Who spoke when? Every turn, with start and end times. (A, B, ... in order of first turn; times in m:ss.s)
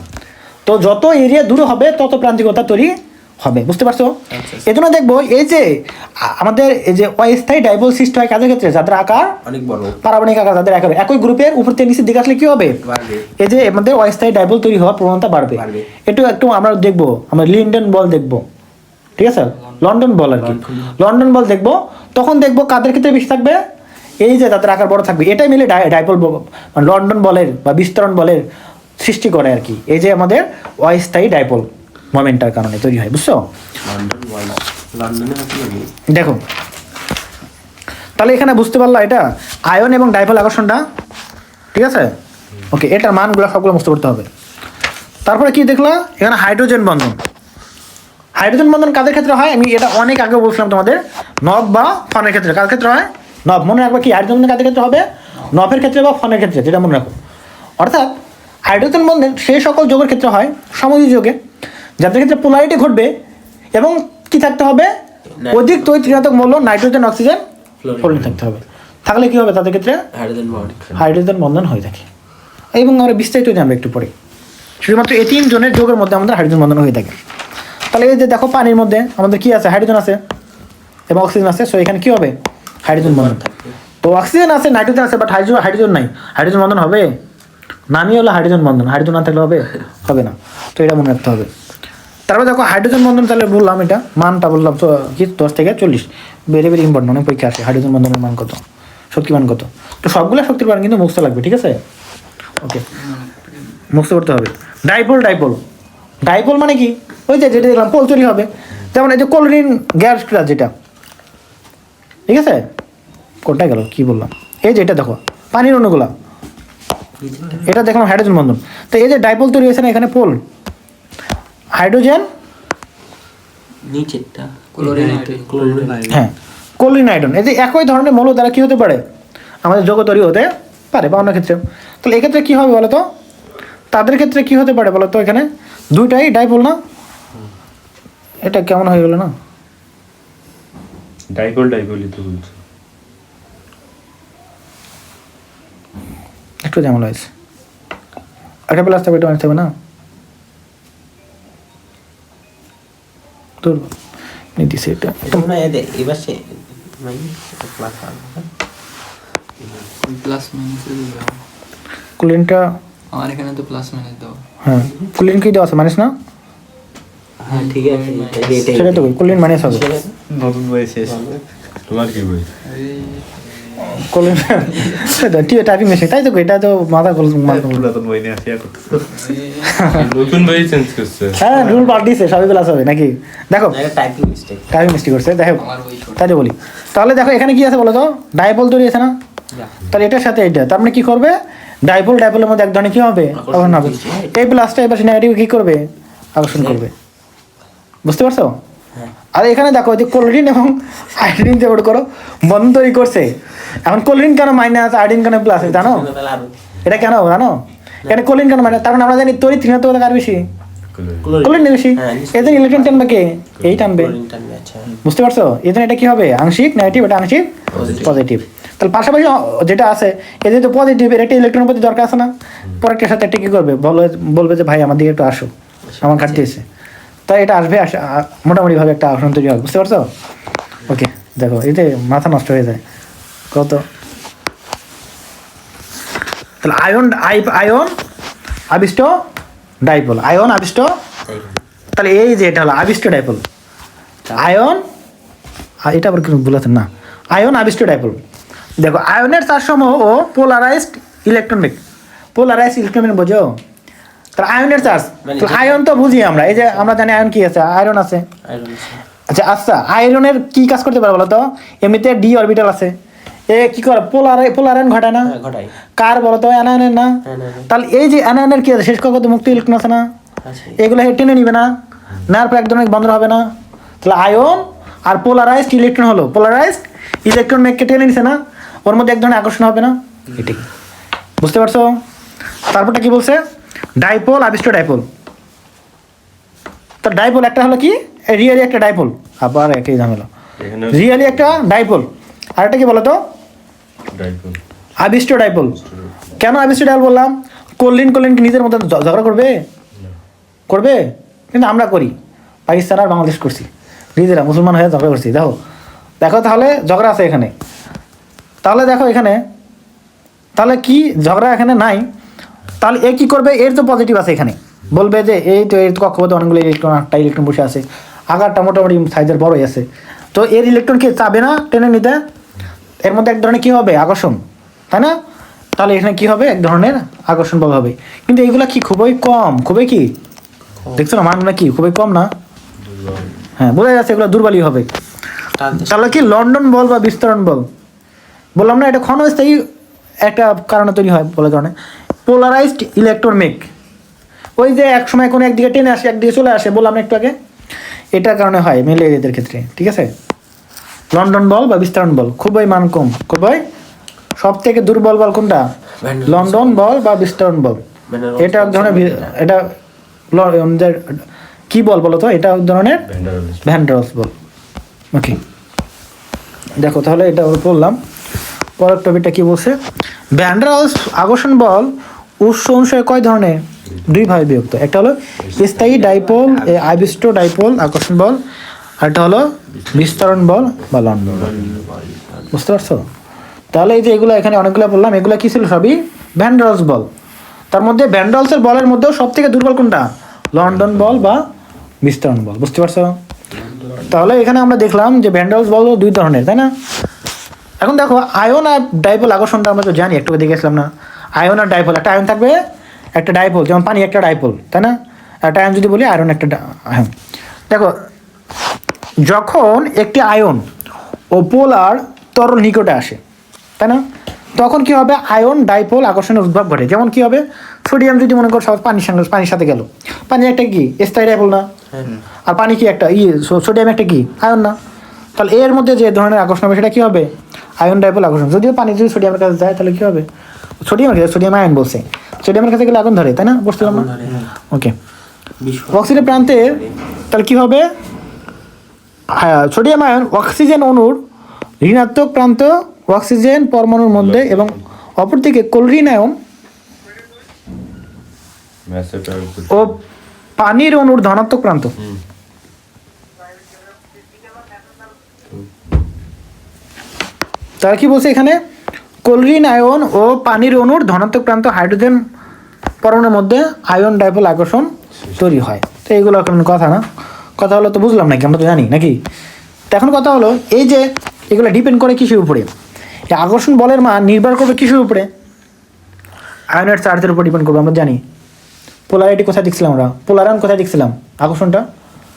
0:00.7-0:09.4 A
0:04.3-0:04.7 B
0:09.4-0:10.0 B
0:10.0-0:12.8 A
0:12.8-0:13.3 B
0:13.4-0:18.4 A
0:15.6-0:15.9 B
0:19.2-0:23.6 A
0:20.4-0:20.9 B
0:24.2-0:28.4 A
0:29.0-0:33.4 A
0:33.8-0:35.9 B
0:36.1-0:36.4 A
0:38.2-0:40.8 A
0:41.7-0:42.1 A
0:42.7-0:44.3 A
0:45.2-0:47.2 A
0:48.4-0:57.2 A
0:57.8-1:01.4 A
1:02.0-1:03.1 A
1:03.7-1:04.9 A
1:05.3-1:06.5 B
1:05.5-1:07.4 A
1:07.8-1:08.3 B
1:08.0-1:10.0 A
1:10.1-1:10.9 B
1:10.5-1:11.1 C
1:11.0-1:12.1 A
1:12.7-1:14.1 A
1:14.8-1:17.2 A
1:17.9-1:20.2 A
1:21.1-1:23.4 A
1:23.0-1:23.8 B
1:24.0-1:27.2 A
1:27.9-1:31.5 A
1:32.3-1:41.8 A
1:43.0-1:43.4 D
1:43.9-1:45.6 A
1:46.2-1:50.7 A
1:52.3-1:52.7 A
1:53.4-1:56.1 A
1:57.2-1:57.7 B
1:57.6-2:00.4 A
2:01.8-2:02.2 A
2:03.8-2:06.2 B
2:04.8-2:06.2 D
2:06.1-2:09.0 A
2:09.6-2:13.1 A
2:13.9-2:16.8 A
2:18.4-2:19.3 A
2:21.4-2:22.6 C
2:26.6-2:27.3 A
2:28.7-2:29.7 A
2:33.6-2:33.9 A
2:34.6-2:35.5 A
2:35.2-2:38.5 B
2:40.0-2:41.4 D
2:42.2-2:42.8 A
2:43.1-2:44.4 D
2:44.6-2:46.2 A
2:47.4-2:50.1 B
2:47.5-2:48.8 D
2:48.7-2:49.9 A
2:50.3-2:51.2 E
2:51.0-2:51.4 B
2:51.9-2:52.5 C
2:52.7-2:55.0 D
2:53.8-2:57.9 A
2:57.5-2:59.2 E
2:59.1-3:00.2 D
2:59.7-3:00.0 A
2:59.9-3:01.4 C
3:01.4-3:03.8 A
3:01.5-3:02.0 B
3:03.7-3:04.7 B
3:04.7-3:09.1 A
3:05.6-3:06.3 D
3:09.9-3:16.9 A
3:13.3-3:14.3 B
3:16.5-3:16.8 B
3:18.0-3:18.6 A
3:19.4-3:26.1 A
3:25.6-3:26.5 B
3:26.8-3:30.5 A
3:30.9-3:31.4 C
3:31.2-3:33.2 B
3:31.4-3:34.2 A
3:33.6-3:33.9 C
3:33.9-3:35.0 B
3:35.0-3:45.5 A
3:37.7-3:38.0 C
3:37.7-3:38.2 B
3:45.9-3:46.4 B
3:46.0-3:46.6 A
3:47.3-3:50.1 A
3:50.9-3:52.8 A
3:53.5-3:53.8 A
3:56.6-3:57.9 A
3:58.7-3:59.2 A
3:59.8-4:01.0 A
4:01.2-4:01.6 B
4:02.0-4:03.4 A
4:04.4-4:04.8 A
4:05.8-4:08.2 A
4:08.8-4:11.8 A
4:12.4-4:13.6 A
4:14.4-4:18.2 A
4:14.8-4:17.0 B
4:18.4-4:19.0 B
4:19.3-4:23.0 A
4:23.5-4:25.3 A
4:25.2-4:25.7 B
4:26.0-4:30.1 A
4:27.2-4:27.7 B
4:30.4-4:30.8 B
4:30.8-4:31.7 A
4:32.3-4:33.5 A
4:34.0-4:40.6 A
4:41.4-4:42.0 A
4:42.7-4:43.4 A
4:44.0-4:45.1 A
4:47.0-4:50.3 A
4:50.6-4:51.6 C
4:50.9-4:53.2 A
4:54.1-4:54.6 C
4:55.0-4:55.8 A
4:55.8-4:56.1 C
4:56.4-4:59.6 A
5:00.7-5:02.1 A
5:02.7-5:05.6 A
5:06.2-5:07.5 A
5:08.6-5:09.4 A
5:10.6-5:12.1 A
5:12.8-5:22.2 A
5:23.0-5:24.4 A
5:24.9-5:25.2 A
5:25.8-5:30.1 A
5:31.0-5:32.3 A
5:32.8-5:33.3 C
5:33.6-5:34.9 A
5:35.6-5:36.4 B
5:35.8-5:37.7 A
5:38.6-5:39.7 A
5:40.2-5:41.7 A
5:42.2-5:43.7 A
5:44.6-5:47.4 A
5:48.1-5:50.1 A
5:51.1-5:53.6 A
5:54.4-5:55.7 A
5:56.0-5:56.9 B
5:56.2-5:57.8 A
5:58.1-5:59.3 B
5:58.4-5:59.7 A
6:00.3-6:01.2 A
6:01.7-6:03.0 A
6:03.1-6:03.8 C
6:03.6-6:04.3 A
6:05.1-6:05.4 A
6:06.8-6:08.0 A
6:08.8-6:09.8 A
6:10.3-6:18.4 A
6:15.4-6:15.9 C
6:15.6-6:17.2 B
6:19.0-6:21.5 A
6:19.7-6:22.0 C
6:21.3-6:22.6 B
6:22.5-6:23.0 A
6:23.7-6:27.1 A
6:27.7-6:31.4 A
6:30.6-6:31.4 C
6:32.0-6:33.2 A
6:33.5-6:34.1 B
6:34.1-6:36.7 A
6:37.8-6:42.6 A
6:43.2-6:47.1 A
6:49.2-6:50.6 A
6:51.3-6:53.2 A
6:54.6-7:01.7 A
7:02.5-7:04.8 A
7:05.4-7:10.2 A
7:10.8-7:14.1 A
7:13.8-7:14.5 B
7:15.6-7:16.9 B
7:15.9-7:16.8 A
7:17.3-7:17.9 A
7:19.3-7:21.2 A
7:21.8-7:26.4 A
7:24.1-7:24.8 C
7:28.9-7:30.0 C
7:29.7-7:30.0 A
7:30.6-7:31.9 A
7:37.8-7:38.6 A
7:39.2-7:42.2 A
7:43.0-7:47.0 A
7:47.6-7:49.2 A
7:49.9-7:52.7 A
7:53.3-7:55.3 A
7:56.7-7:58.2 A
7:59.1-8:01.8 A